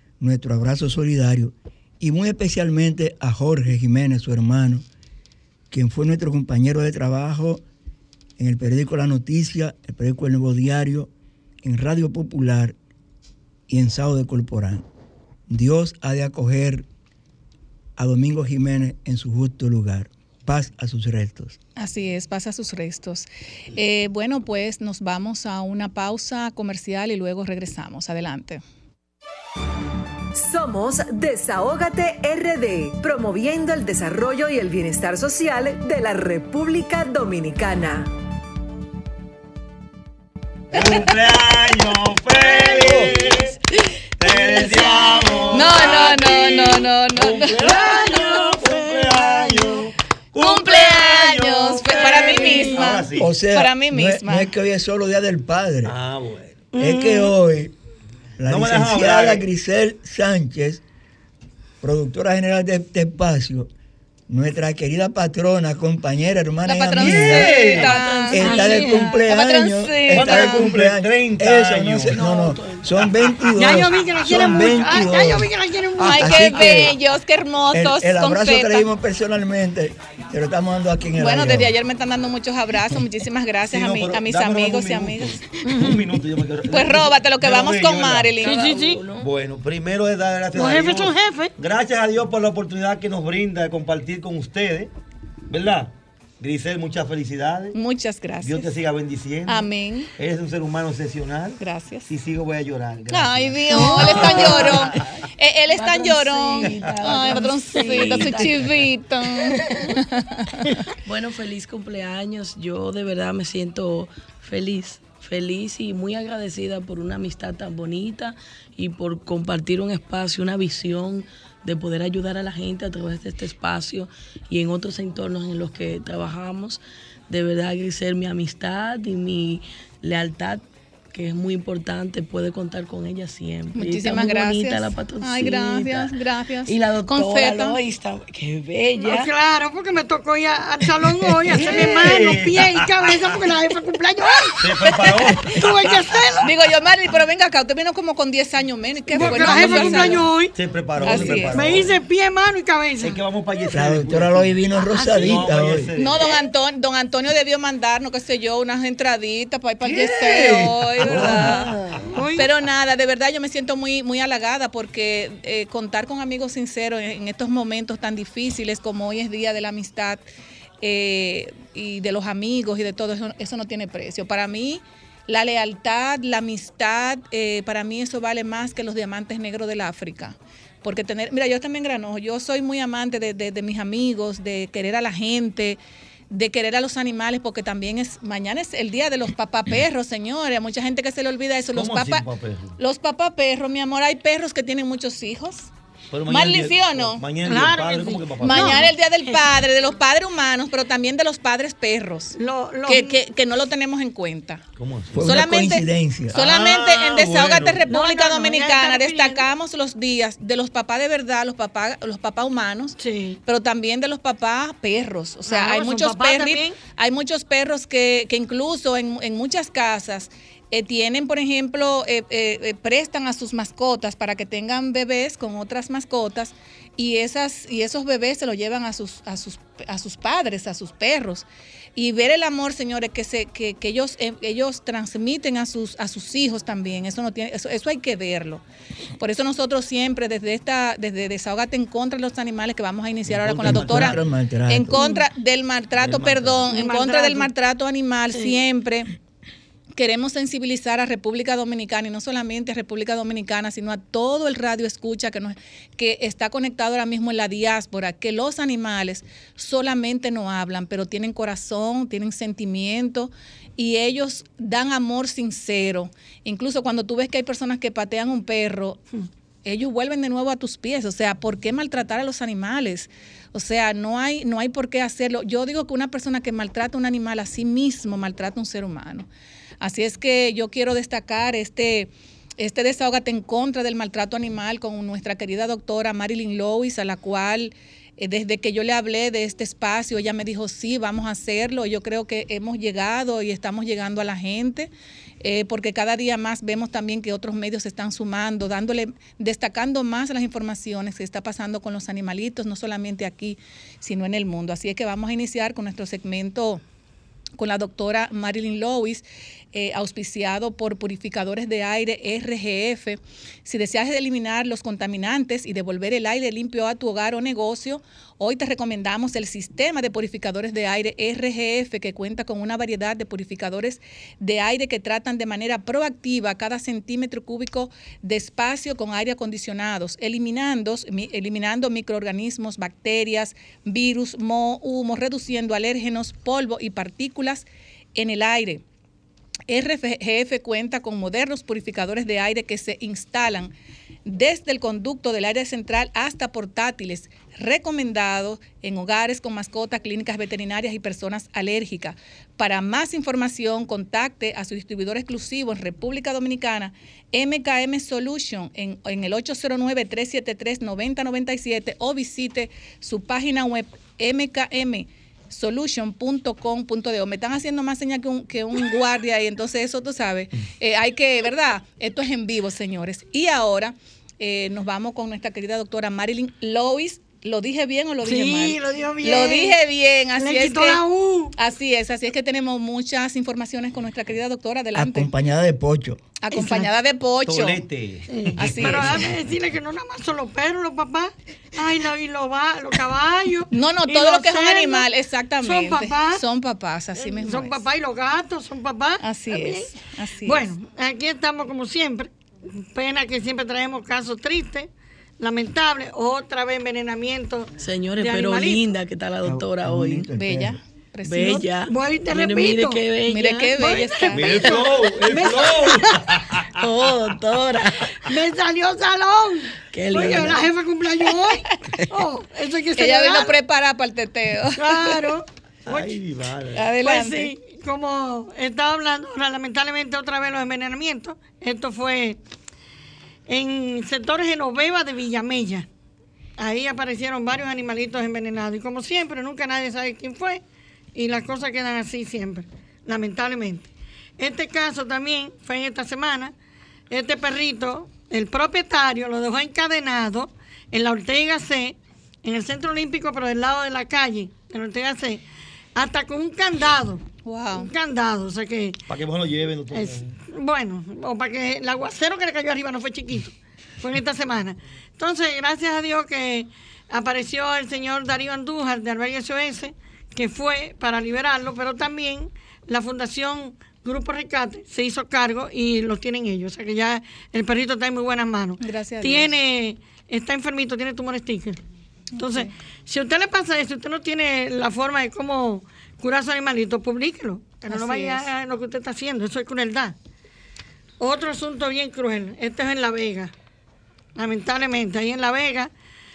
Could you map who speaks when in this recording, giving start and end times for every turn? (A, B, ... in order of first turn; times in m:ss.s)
0:00.2-0:04.9 A
0:05.7-0:07.6 A
0:08.4-0:11.1 A
0:11.6-0:12.8 A
0:13.7-0:14.8 A
0:15.5-0:16.9 A
0:18.0-0:21.6 A
0:21.8-0:28.6 B
0:30.3-0:38.1 C
0:40.7-0:43.5 D
0:40.8-0:41.1 B
0:44.2-0:53.4 D
0:44.4-0:45.7 E
0:45.5-0:48.4 B
0:47.9-0:49.8 E
0:50.4-0:54.5 B
0:51.9-0:53.0 E
0:53.2-0:56.0 A
0:55.8-0:56.7 D
0:56.7-0:57.3 E
0:56.8-0:57.7 A
0:58.4-1:00.8 A
0:58.5-0:59.5 D
1:01.8-1:03.7 A
1:04.3-1:07.6 A
1:06.6-1:10.7 B
1:07.0-1:08.0 D
1:07.8-1:08.8 F
1:08.3-1:17.0 A
1:08.4-1:09.0 E
1:10.1-1:12.2 D
1:12.1-1:12.9 F
1:13.5-1:16.6 E
1:16.0-1:18.9 B
1:17.7-1:21.7 A
1:21.2-1:25.4 B
1:23.6-1:28.4 D
1:25.6-1:26.0 E
1:26.7-1:29.0 B
1:28.4-1:29.1 E
1:28.5-1:29.2 F
1:29.1-1:34.9 D
1:30.5-1:31.5 E
1:35.5-1:37.8 D
1:37.7-1:38.7 B
1:38.4-1:45.1 D
1:39.5-1:40.1 B
1:41.6-1:42.1 B
1:43.1-1:50.6 B
1:43.8-1:44.1 E
1:44.0-1:44.8 F
1:45.8-1:48.8 F
1:46.6-1:47.0 D
1:51.1-2:16.1 F
2:13.8-2:17.8 B
2:16.7-2:19.3 F
2:19.1-2:26.6 E
2:21.5-2:23.4 D
2:24.6-2:26.1 D
2:26.4-2:30.3 B
2:29.1-2:30.6 E
2:29.2-2:32.0 D
2:31.0-2:31.7 B
2:31.1-2:33.2 E
2:33.0-2:36.3 D
2:33.7-2:35.9 A
2:34.9-2:35.3 B
2:36.0-2:41.7 B
2:39.8-2:42.0 D
2:42.1-2:42.5 E
2:42.4-2:50.2 B
2:50.8-3:05.8 B
3:06.3-3:12.2 B
3:11.7-3:12.8 D
3:12.8-3:15.7 B
3:16.1-3:18.8 D
3:16.3-3:17.2 B
3:17.4-3:19.4 E
3:18.4-3:22.4 B
3:22.4-3:23.2 E
3:22.9-3:24.6 B
3:24.8-3:25.3 D
3:25.1-3:26.5 A
3:25.2-3:58.6 B
3:26.4-3:27.9 D
3:27.9-3:29.4 E
3:33.0-3:33.4 E
3:35.5-3:36.8 E
3:59.2-4:09.1 B
4:03.2-4:04.2 D
4:03.6-4:05.0 A
4:05.0-4:05.2 E
4:06.0-4:06.7 D
4:06.7-4:07.5 E
4:08.3-4:08.6 E
4:10.0-4:29.0 B
4:29.6-4:39.3 B
4:39.8-4:54.9 B
4:55.4-5:06.8 B
5:07.6-5:38.8 B
5:39.7-5:43.7 B
5:44.3-6:21.0 B
6:18.2-6:19.8 E
6:20.4-6:21.5 E
6:21.6-6:25.3 B
6:25.0-6:26.3 A
6:26.4-6:27.8 B
6:26.5-6:26.9 E
6:27.4-6:29.4 D
6:28.3-6:35.1 E
6:28.6-6:29.2 B
6:33.7-6:37.8 B
6:35.6-6:36.4 E
6:37.2-6:42.3 E
6:39.2-6:40.7 B
6:42.9-6:44.9 E
6:45.4-6:48.9 E
6:47.8-6:50.3 F
6:49.4-6:50.8 A
6:50.4-6:51.7 B
6:51.3-6:53.9 F
6:51.9-6:53.1 E
6:53.3-6:54.8 B
6:53.8-6:56.1 E
6:54.3-6:56.6 D
6:56.8-6:58.0 F
6:58.3-7:03.6 E
6:59.9-7:00.6 F
7:00.1-7:00.7 D
7:03.0-7:05.3 B
7:04.8-7:06.2 E
7:05.9-7:06.9 D
7:06.8-7:07.5 B
7:07.0-7:12.4 E
7:13.5-7:15.9 E
7:16.6-7:20.6 E
7:21.2-7:26.5 E
7:27.1-7:35.4 E
7:36.0-7:39.0 E
7:37.4-7:37.9 B
7:39.1-7:40.4 D
7:39.9-8:01.8 E
7:58.8-7:59.5 B
8:02.4-8:02.7 B
8:02.4-8:10.2 E
8:07.8-8:08.5 B
8:11.2-8:13.5 E
8:14.4-8:15.9 E